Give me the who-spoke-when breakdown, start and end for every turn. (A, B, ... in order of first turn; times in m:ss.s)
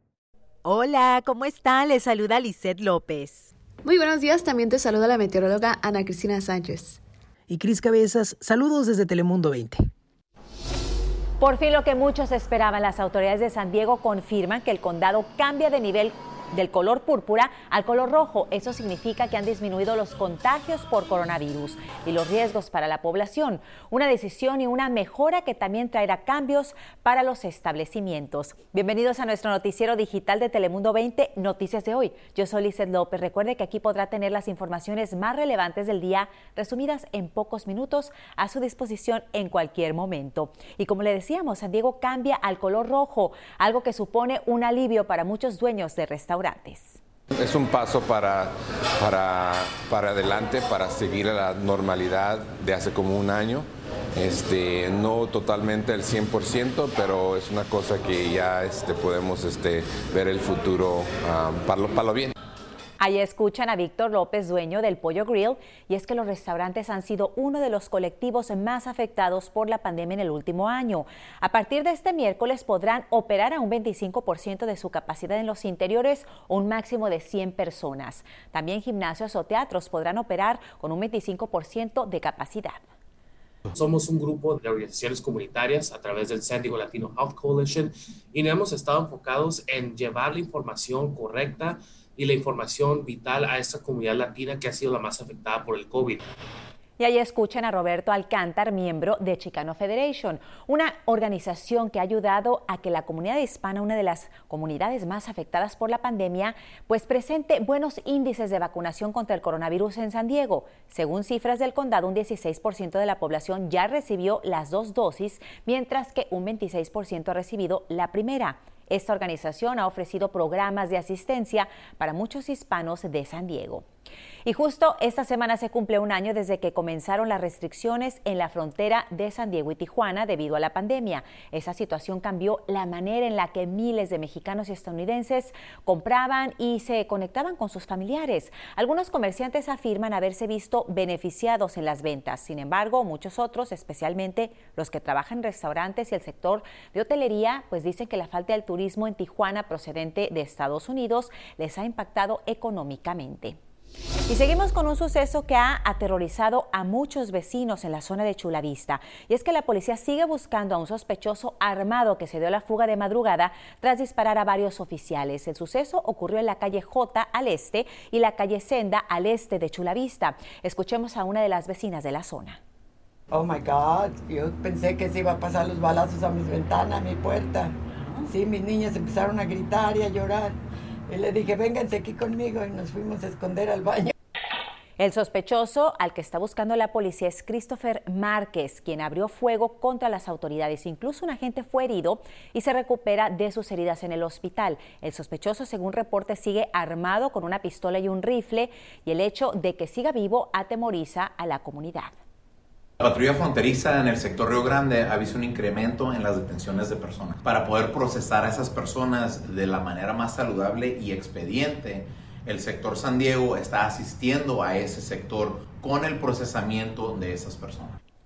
0:00.7-0:03.3 A
0:03.8-0:07.0 B
0:07.5-0:09.8 C
0:11.4-0:47.0 A
0:47.4-1:02.3 D
1:03.0-1:22.8 A
1:23.7-1:36.2 E
1:37.0-2:03.8 A
2:04.4-2:33.6 A
2:34.3-2:52.6 A
2:53.3-3:00.6 F
3:01.1-3:04.1 F
3:05.0-3:22.1 A
3:23.0-3:38.0 G